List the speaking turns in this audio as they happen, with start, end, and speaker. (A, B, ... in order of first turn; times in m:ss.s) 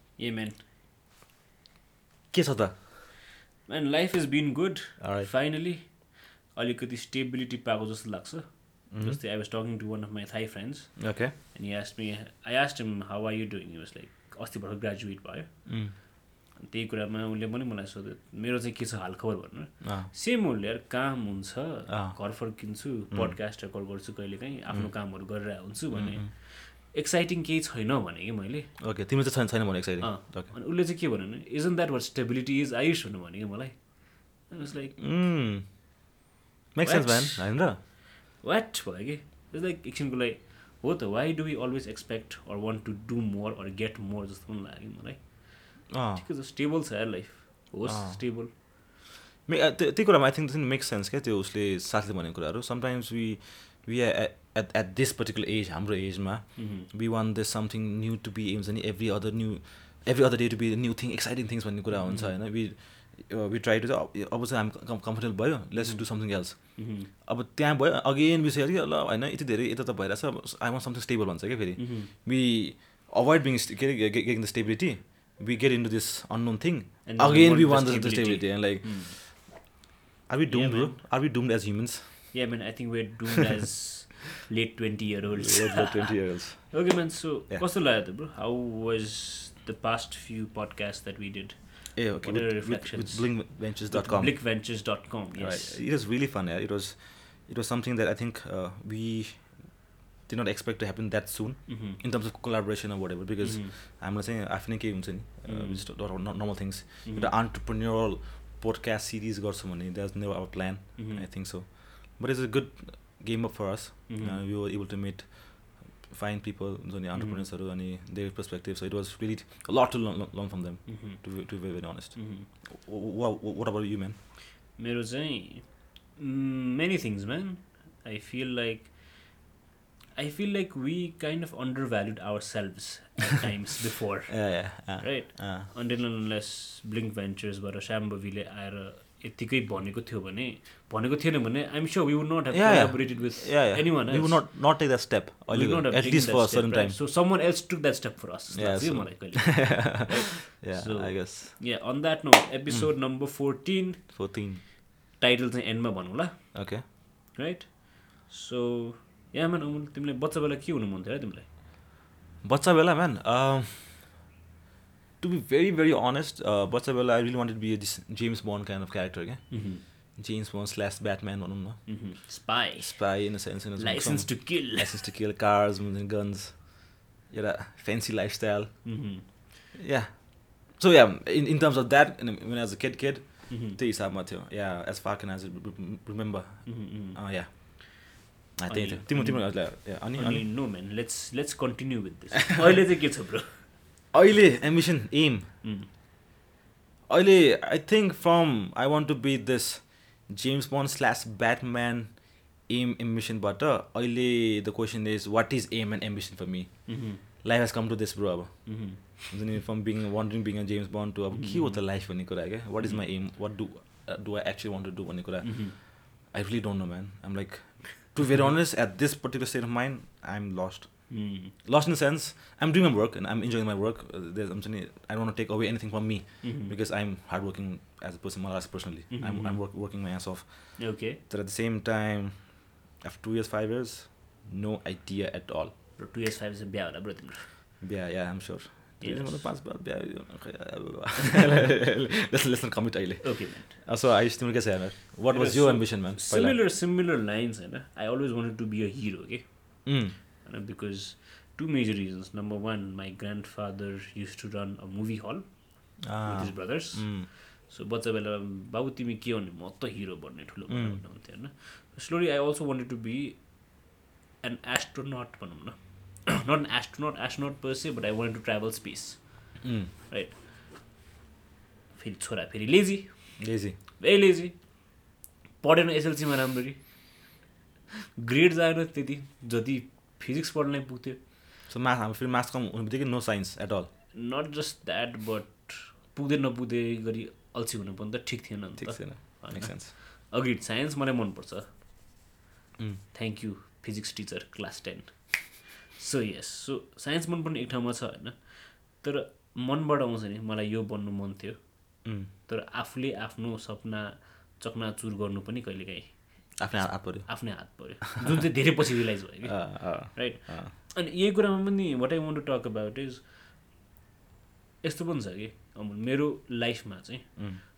0:00.2-0:00.6 A
0:02.3-0:02.9 B
0:03.7-0:15.8 A
0:05.0-0:05.3 B
0:08.9-0:09.2 B
0:11.0-0:11.3 B
0:15.7-0:15.9 B
0:16.6-0:28.7 A
0:19.8-0:20.1 B
0:21.9-0:22.2 B
0:23.1-0:23.4 B
0:24.7-0:26.3 B
0:28.8-0:30.5 B
0:30.0-0:35.0 A
0:35.0-0:35.6 B
0:36.7-0:37.8 B
0:36.8-0:37.6 A
0:38.4-0:48.5 A
0:45.9-0:46.3 B
0:47.8-0:48.2 B
0:49.5-1:19.5 B
0:56.6-0:56.9 A
1:02.0-1:02.4 A
1:05.8-1:07.1 A
1:11.8-1:12.1 A
1:17.1-1:19.5 A
1:20.3-1:22.4 B
1:20.5-1:21.0 A
1:22.3-1:26.1 A
1:25.4-1:26.9 B
1:26.7-1:35.8 A
1:32.0-2:04.2 B
1:41.7-1:42.0 A
1:43.4-1:43.7 A
1:45.5-1:45.9 A
1:47.0-1:47.3 A
1:51.0-1:51.3 A
1:54.1-1:54.4 A
1:57.2-1:57.5 A
2:00.9-2:01.5 A
2:02.2-2:02.5 A
2:04.8-2:09.4 A
2:10.2-2:24.5 A
2:14.3-2:15.7 B
2:22.5-2:27.0 B
2:25.5-2:34.2 A
2:28.5-2:31.8 B
2:32.7-2:32.9 B
2:34.1-2:34.6 B
2:35.1-2:36.8 A
2:36.5-2:36.8 B
2:37.3-2:41.5 A
2:42.4-2:44.1 B
2:45.2-2:52.0 B
2:49.5-2:49.8 A
2:51.9-2:53.2 A
2:52.8-2:59.0 B
2:53.8-2:55.1 A
2:58.8-2:59.4 A
2:59.8-3:10.5 B
3:03.5-3:03.8 A
3:06.7-3:08.0 A
3:08.7-3:13.6 A
3:14.1-3:15.5 B
3:15.6-3:15.9 A
3:17.1-3:55.7 B
3:26.9-3:27.2 A
3:28.7-3:29.2 A
3:31.3-3:31.9 A
3:35.4-3:35.8 A
3:41.1-3:41.5 A
3:46.4-3:46.8 A
3:49.1-3:49.6 A
3:50.8-3:51.2 A
3:56.0-3:57.5 A
3:57.8-4:06.6 B
3:59.0-3:59.4 A
4:03.2-4:03.8 A
4:05.3-4:15.5 A
4:09.8-4:10.2 B
4:16.0-4:17.3 B
4:16.0-4:23.4 A
4:20.7-4:21.0 B
4:24.4-4:30.4 A
4:29.6-4:29.9 B
4:32.0-4:33.1 A
4:33.4-4:33.8 B
4:34.0-4:34.6 A
4:35.6-4:36.8 A
4:38.2-4:41.2 A
4:41.7-4:43.9 B
4:44.1-4:51.6 A
4:48.8-4:49.9 B
4:53.1-5:01.6 A
5:02.0-5:02.3 B
5:02.3-5:13.3 A
5:06.6-5:08.0 B
5:09.4-5:10.7 B
5:14.8-5:17.4 A
5:17.4-5:17.6 B